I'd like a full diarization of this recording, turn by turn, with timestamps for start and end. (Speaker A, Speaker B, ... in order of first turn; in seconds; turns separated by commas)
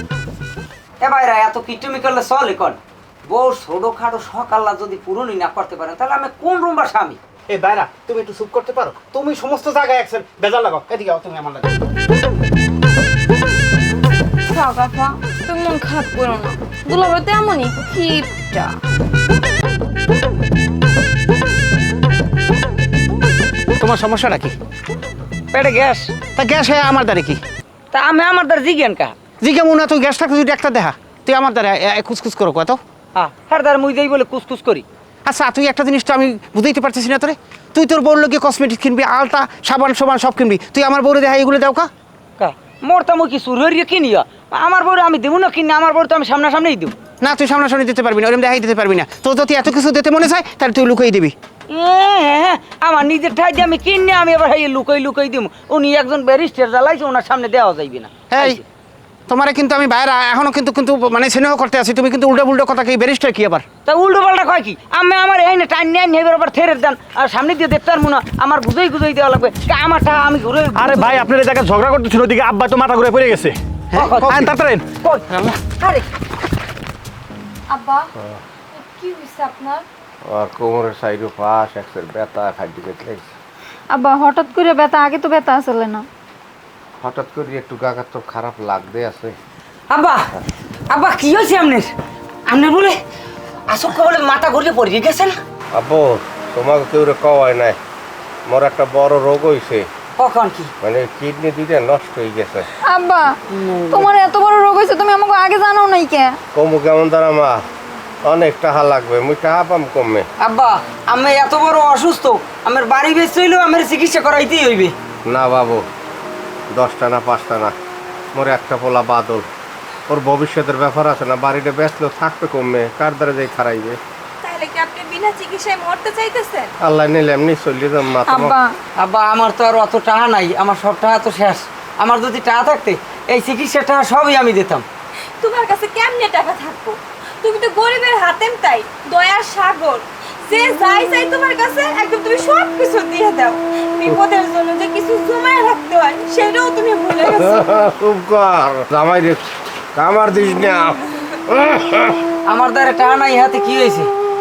Speaker A: 1.0-7.2, Speaker B: 7.5-11.8, Speaker C: 14.5-18.8, Speaker B: 23.8-24.5, Speaker A: 25.5-26.1, Speaker B: 26.4-27.4, Speaker A: 27.9-29.1, Speaker B: 29.4-32.8, Speaker A: 33.1-34.8, Speaker B: 35.2-41.9, Speaker A: 42.4-47.0, Speaker B: 47.2-51.3, Speaker A: 51.7-58.6, Speaker B: 58.3-58.6, Speaker B: 59.3-63.6, Speaker A: 63.9-71.2, Speaker D: 70.8-73.5, Speaker B: 73.9-74.5, Speaker A: 73.9-75.2, Speaker D: 74.2-74.8, Speaker B: 75.3-75.5, Speaker C: 77.7-78.1, Speaker C: 78.7-79.8, Speaker E: 80.3-83.3, Speaker F: 83.9-86.0, Speaker E: 87.0-89.3, Speaker A: 89.9-90.2, Speaker A: 90.9-91.9, Speaker A: 92.5-93.0, Speaker A: 93.7-95.4, Speaker E: 95.7-97.8, Speaker E: 98.5-99.9, Speaker A: 100.2-100.7, Speaker E: 100.8-102.7, Speaker F: 102.9-103.4, Speaker A: 103.5-104.1, Speaker F: 103.9-106.4, Speaker E: 106.5-107.6, Speaker E: 108.2-110.2, Speaker A: 110.4-114.9, Speaker E: 115.2-115.8, Speaker E: 116.7-117.7, Speaker E: 118.3-119.5, Speaker E: 120.1-124.0, Speaker C: 124.4-126.7, Speaker E: 126.8-128.6, Speaker F: 128.2-128.7, Speaker A: 129.0-134.8, Speaker C: 135.4-147.8, Speaker E: 147.3-152.2, Speaker A: 152.5-154.1